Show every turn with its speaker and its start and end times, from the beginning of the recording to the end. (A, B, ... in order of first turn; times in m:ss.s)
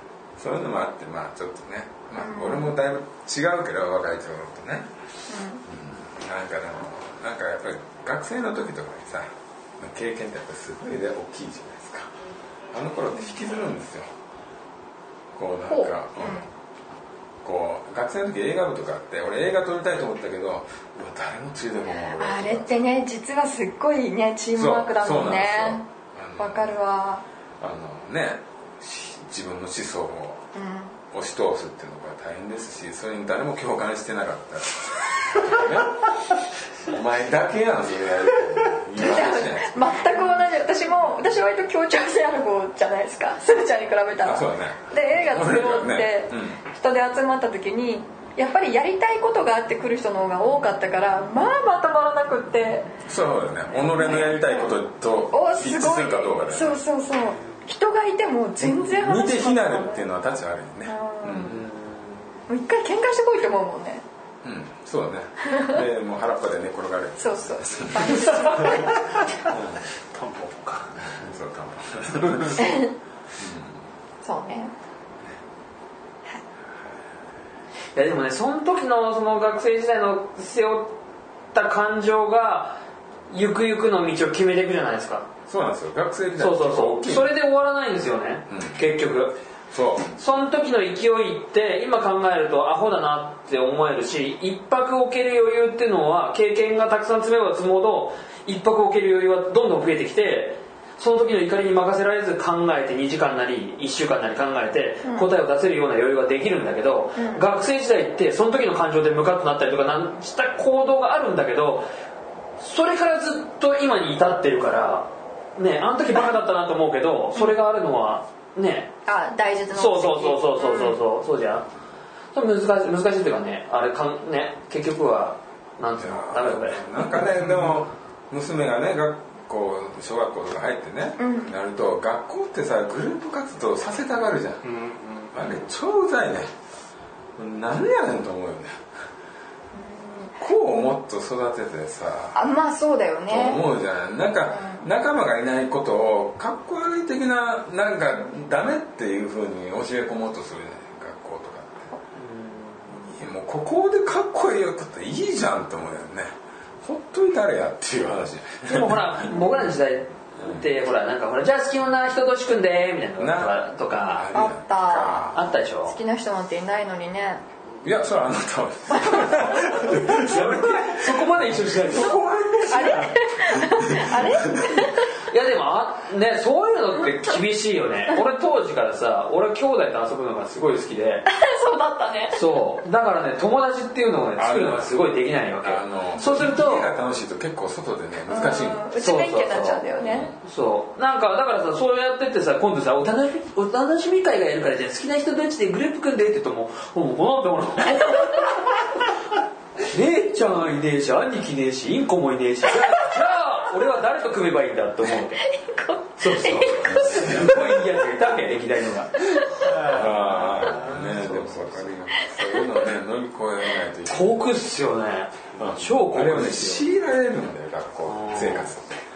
0:00.4-0:04.9 A
0:02.2-0:02.7 B
0:05.3-0:05.6 B
0:05.7-0:12.1 A
0:12.7-0:14.1 A
0:15.3-0:16.5 A
0:15.7-0:16.5 B
0:17.4-0:22.8 A
0:22.1-0:25.8 B
0:24.6-0:26.8 A
0:26.4-0:27.2 B
0:27.6-0:30.4 A
0:30.5-0:31.0 B
0:31.1-0:36.2 A
0:36.8-0:40.0 A
0:39.0-0:53.0 B
0:44.2-0:46.6 A
0:53.0-0:56.8 A
0:53.9-0:54.8 B
0:55.3-1:00.1 B
0:58.6-1:01.6 A
1:00.8-1:01.6 B
1:01.4-1:02.4 C
1:02.5-1:04.0 B
1:04.4-1:08.9 A
1:05.5-1:05.8 B
1:07.2-1:09.2 B
1:08.6-1:09.1 D
1:09.5-1:09.8 A
1:10.1-1:11.2 D
1:11.1-1:12.8 A
1:12.2-1:12.5 D
1:12.6-1:12.9 B
1:13.4-1:13.8 A
1:14.2-1:14.7 B
1:18.0-1:21.0 C
1:21.5-1:25.3 C
1:25.5-1:27.3 A
1:26.4-1:29.4 C
1:28.5-1:28.8 A
1:29.7-1:30.1 A
1:30.2-1:51.9 C
1:45.0-1:45.3 B
1:47.2-1:47.4 B
1:52.6-1:58.9 C
1:59.0-2:01.0 B
1:59.7-2:01.7 C
2:02.3-2:06.8 C
2:06.0-2:14.6 A
2:11.2-2:11.6 B
2:14.6-2:15.5 D
2:15.3-2:16.5 A
2:17.4-2:18.8 A
2:19.7-2:20.4 B
2:20.4-2:22.4 A
2:22.4-2:23.6 B
2:23.3-2:31.9 A
2:24.4-2:24.8 B
2:32.1-2:33.1 C
2:33.0-2:36.3 A
2:36.8-2:39.2 A
2:38.7-2:44.3 C
2:43.2-2:45.5 A
2:44.3-2:45.3 B
2:45.3-2:46.0 C
2:45.9-2:47.4 B
2:47.8-2:55.0 A
2:48.9-2:50.3 B
2:50.2-2:52.2 C
2:52.7-2:55.1 B
2:55.3-3:01.3 C
3:01.3-3:02.4 B
3:02.3-3:06.9 C
3:04.4-3:05.0 A
3:05.6-3:08.8 A
3:08.3-3:10.3 B
3:09.0-3:09.8 C
3:10.0-3:10.4 A
3:10.4-3:19.1 C
3:18.2-3:18.6 B
3:19.8-3:25.5 C
3:25.4-3:27.8 B
3:26.2-3:29.4 C
3:26.8-3:28.1 A
3:29.6-3:32.0 D
3:29.8-3:34.5 A
3:32.2-3:32.7 B
3:34.1-3:36.9 C
3:35.6-3:39.0 A
3:38.0-3:38.7 C